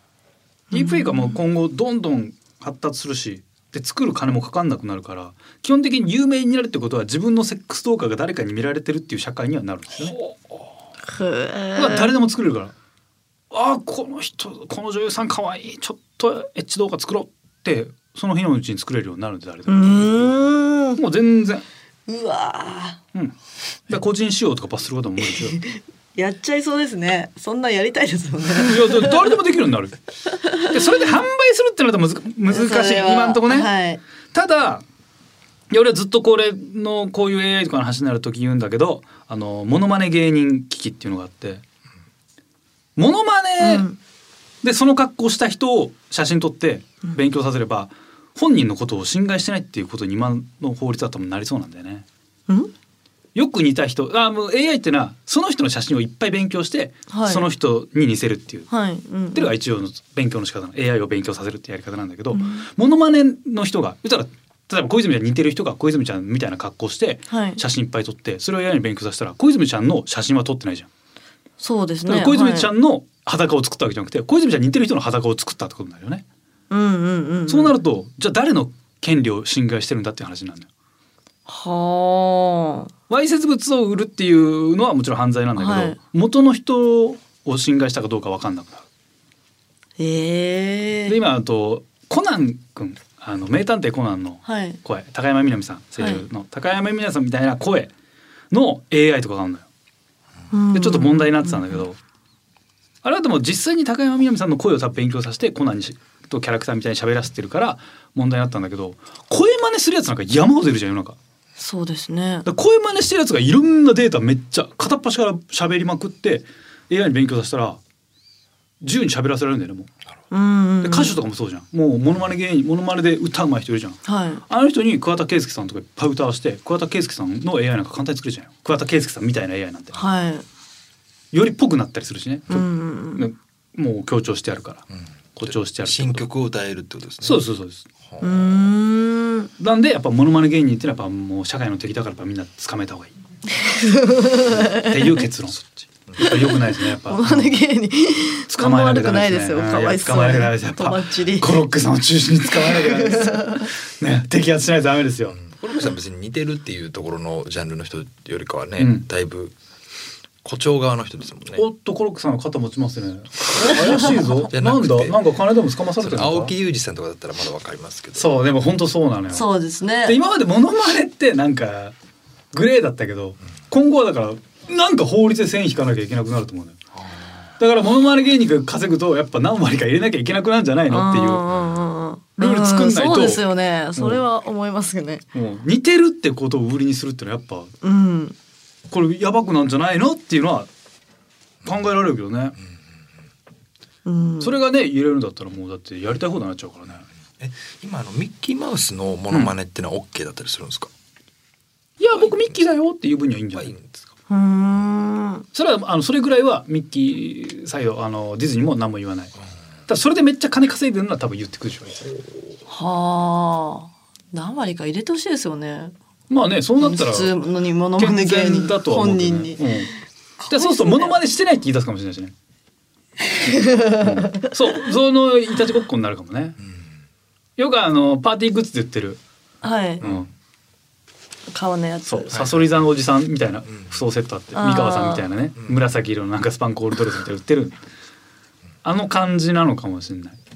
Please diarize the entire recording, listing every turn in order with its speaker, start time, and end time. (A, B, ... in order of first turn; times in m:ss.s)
0:00.7-0:01.4 A
0:00.7-0:10.2 B
0:11.1-0:12.1 A
0:11.8-0:12.7 B
0:13.5-0:20.3 B
0:19.7-0:21.0 A
0:21.0-0:21.6 B
0:22.1-0:23.0 A
0:23.9-0:25.6 B
0:25.3-0:29.3 A
0:28.6-0:30.0 B
0:30.3-0:30.7 A
0:30.5-0:33.7 B
0:32.5-0:34.0 A
0:34.3-0:34.8 B
0:35.7-0:41.6 B
0:43.0-0:43.9 B
0:43.6-0:44.0 A
0:44.6-0:52.0 B
0:53.3-0:58.7 B
0:57.1-0:57.4 A
0:58.7-0:59.5 A
0:59.3-1:10.9 B
1:02.3-1:02.7 A
1:07.3-1:07.6 A
1:11.6-1:12.7 A
1:12.0-1:16.2 B
1:16.7-1:17.7 A
1:17.5-1:20.7 B
1:21.5-1:22.9 A
1:23.1-1:28.8 B
1:25.6-1:26.0 A
1:30.0-1:31.2 A
1:31.1-1:37.9 B
1:34.4-1:34.8 A
1:36.0-1:36.2 A
1:38.5-1:39.7 B
1:40.5-1:41.8 A
1:40.7-1:42.0 B
1:43.0-1:51.2 B
1:51.6-1:52.4 A
1:52.4-1:57.8 B
1:58.8-1:59.9 B
2:00.3-2:01.2 A
2:00.8-2:10.0 B
2:04.0-2:04.4 A
2:09.9-2:10.4 A
2:11.3-2:14.8 B
2:12.5-2:13.2 A
2:15.4-2:16.2 B
2:15.4-2:17.4 C
2:17.2-2:17.9 B
2:18.0-2:18.6 C
2:18.2-2:19.5 A
2:19.6-2:23.1 B
2:23.5-2:25.2 A
2:24.5-2:25.6 B
2:26.2-2:27.5 B
2:26.2-2:31.6 A
2:28.5-2:35.4 B
2:32.5-2:33.7 A
2:35.4-2:39.5 C
2:38.8-2:39.0 B
2:40.4-2:41.6 C
2:41.5-2:46.5 B
2:44.5-2:45.2 C
2:46.0-2:48.3 C
2:48.2-2:49.5 B
2:49.3-2:50.2 A
2:50.0-2:51.9 B
2:52.5-2:56.8 B
2:57.0-2:57.4 C
2:57.6-3:01.4 B
3:00.9-3:05.2 A
3:02.4-3:03.4 B
3:04.0-3:04.2 B
3:05.3-3:07.7 B
3:07.8-3:08.4 A
3:08.9-3:10.7 B
3:11.6-3:12.6 B
3:14.0-3:14.5 A
3:14.4-3:17.0 B
3:17.4-3:20.9 C
3:22.0-3:23.8 B
3:23.6-3:24.0 C
3:24.3-3:25.4 A
3:25.5-3:29.3 B
3:29.9-3:32.1 B
3:32.7-3:35.9 A
3:36.3-3:37.4 B
3:36.8-3:39.7 A
3:38.0-3:39.9 B
3:40.4-3:41.1 A
3:40.5-3:42.3 B
3:43.3-3:44.5 A
3:43.8-3:46.6 B
3:47.6-3:49.2 B
3:49.6-3:50.0 A
3:50.0-3:50.3 B
3:51.5-3:52.5 A
3:52.0-3:57.8 B
3:54.5-3:55.2 A
3:58.8-4:00.4 B